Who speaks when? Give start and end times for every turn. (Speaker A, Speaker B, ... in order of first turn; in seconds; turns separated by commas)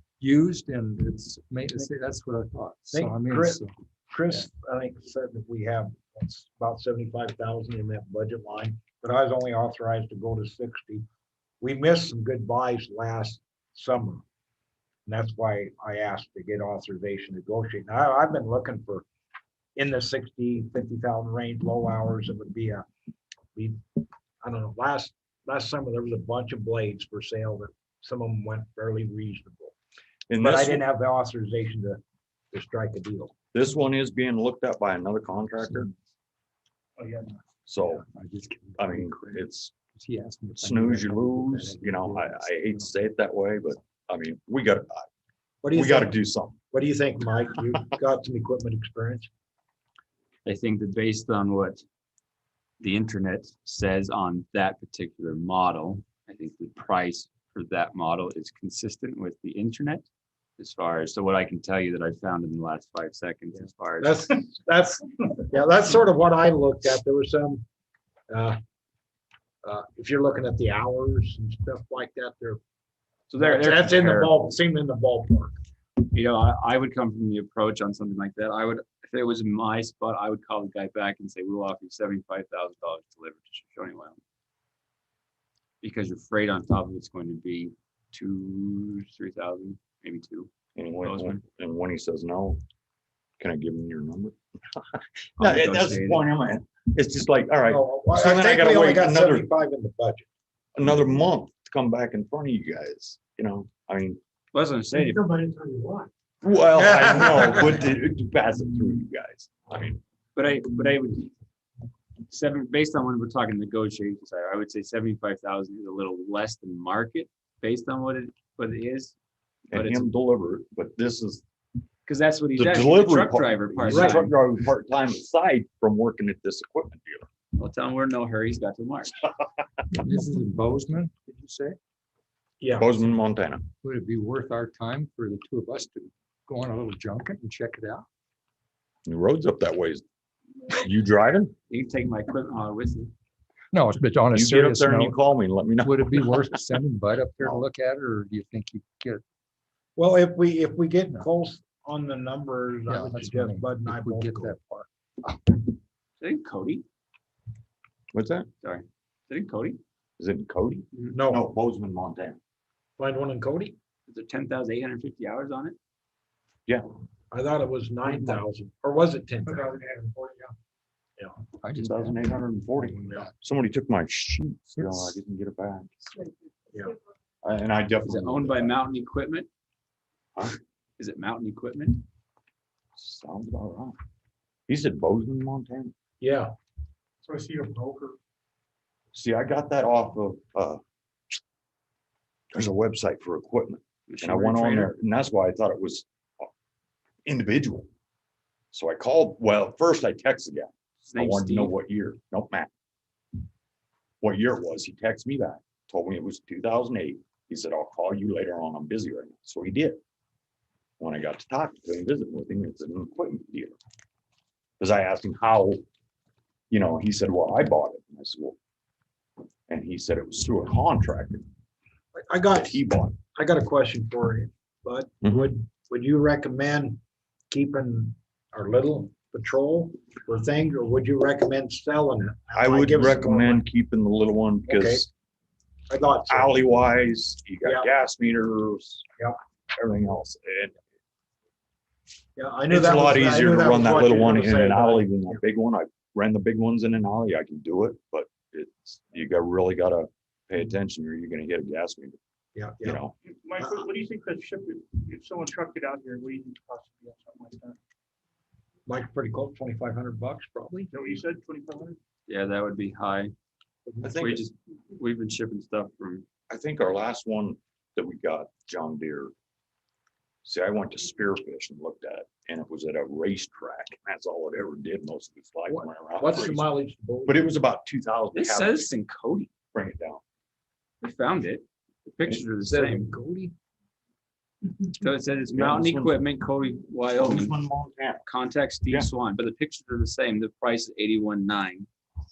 Speaker A: 0.2-3.7, Speaker B: 2.9-11.1, Speaker B: 11.6-14.2, Speaker B: 15.1-19.1, Speaker B: 19.8-22.9, Speaker B: 24.4-29.8, Speaker C: 30.3-30.8, Speaker B: 30.4-32.0, Speaker B: 32.5-33.3, Speaker C: 33.5-35.9, Speaker D: 37.0-37.4, Speaker C: 37.7-38.0, Speaker A: 38.0-39.4, Speaker C: 38.8-39.7, Speaker A: 40.0-42.9, Speaker C: 40.6-45.1, Speaker B: 45.6-46.2, Speaker C: 45.7-46.6, Speaker B: 46.7-49.3, Speaker E: 50.5-51.8, Speaker E: 52.8-60.1, Speaker E: 60.6-64.4, Speaker B: 64.0-67.7, Speaker B: 68.3-68.6, Speaker B: 69.6-72.6, Speaker E: 73.3-74.3, Speaker B: 73.4-75.6, Speaker E: 76.0-84.2, Speaker E: 85.8-90.5, Speaker C: 90.8-92.6, Speaker E: 91.0-91.4, Speaker C: 93.4-99.5, Speaker E: 95.4-96.3, Speaker B: 97.7-100.3, Speaker C: 100.8-104.2, Speaker E: 104.5-105.3, Speaker B: 105.1-106.1, Speaker C: 106.4-110.0, Speaker B: 106.8-107.7, Speaker E: 110.3-111.3, Speaker E: 112.3-119.2, Speaker C: 119.7-121.4, Speaker E: 119.7-120.1, Speaker E: 122.1-124.3, Speaker C: 122.6-127.3, Speaker B: 123.8-124.3, Speaker E: 127.5-129.3, Speaker A: 129.9-131.8, Speaker B: 132.6-133.0, Speaker C: 132.8-133.7, Speaker A: 133.8-138.1, Speaker C: 139.1-140.0, Speaker C: 140.7-141.5, Speaker E: 141.7-143.1, Speaker A: 143.7-145.2, Speaker C: 144.3-146.7, Speaker A: 145.8-149.2, Speaker C: 147.4-147.7, Speaker B: 150.0-154.6, Speaker A: 152.9-155.6, Speaker E: 156.2-156.8, Speaker C: 158.1-158.5, Speaker E: 158.6-159.8, Speaker C: 160.2-162.4, Speaker B: 161.1-161.4, Speaker B: 163.0-163.8, Speaker E: 164.1-165.8, Speaker B: 167.3-169.8, Speaker C: 168.1-168.3, Speaker D: 169.9-170.5, Speaker A: 171.6-172.2, Speaker C: 171.7-175.9, Speaker A: 173.0-173.3, Speaker A: 174.8-175.1, Speaker C: 177.4-178.8, Speaker E: 178.0-179.5, Speaker E: 181.0-182.0, Speaker C: 183.0-184.0, Speaker C: 184.7-185.9, Speaker B: 186.2-186.5, Speaker D: 187.2-188.1, Speaker C: 189.1-190.8, Speaker C: 192.5-196.5, Speaker E: 194.1-194.9, Speaker C: 197.3-197.9, Speaker C: 198.7-202.7, Speaker E: 201.0-201.7, Speaker C: 204.2-210.0, Speaker C: 211.0-213.8, Speaker C: 214.8-215.8, Speaker C: 216.7-218.6, Speaker C: 219.7-221.5, Speaker B: 222.1-222.8, Speaker C: 222.5-223.2, Speaker B: 223.3-227.0, Speaker C: 225.2-225.5, Speaker B: 227.5-233.6, Speaker C: 232.6-235.1, Speaker B: 234.7-235.1, Speaker B: 235.9-236.7, Speaker C: 236.3-239.1, Speaker B: 237.6-237.9, Speaker C: 239.7-240.8, Speaker B: 242.4-245.4, Speaker C: 242.7-252.2, Speaker B: 252.6-253.0, Speaker C: 252.8-253.2, Speaker D: 253.4-257.8, Speaker B: 258.9-260.9, Speaker D: 260.9-261.9, Speaker E: 262.3-263.3, Speaker C: 264.0-264.4, Speaker E: 264.1-266.3, Speaker C: 266.5-269.3, Speaker C: 270.4-276.7, Speaker B: 275.7-277.5, Speaker C: 277.3-278.9, Speaker E: 278.3-279.5, Speaker C: 279.7-280.2, Speaker E: 281.0-283.1, Speaker B: 282.6-283.5, Speaker E: 284.9-287.6, Speaker C: 285.5-286.3, Speaker C: 287.2-288.2, Speaker E: 288.2-291.9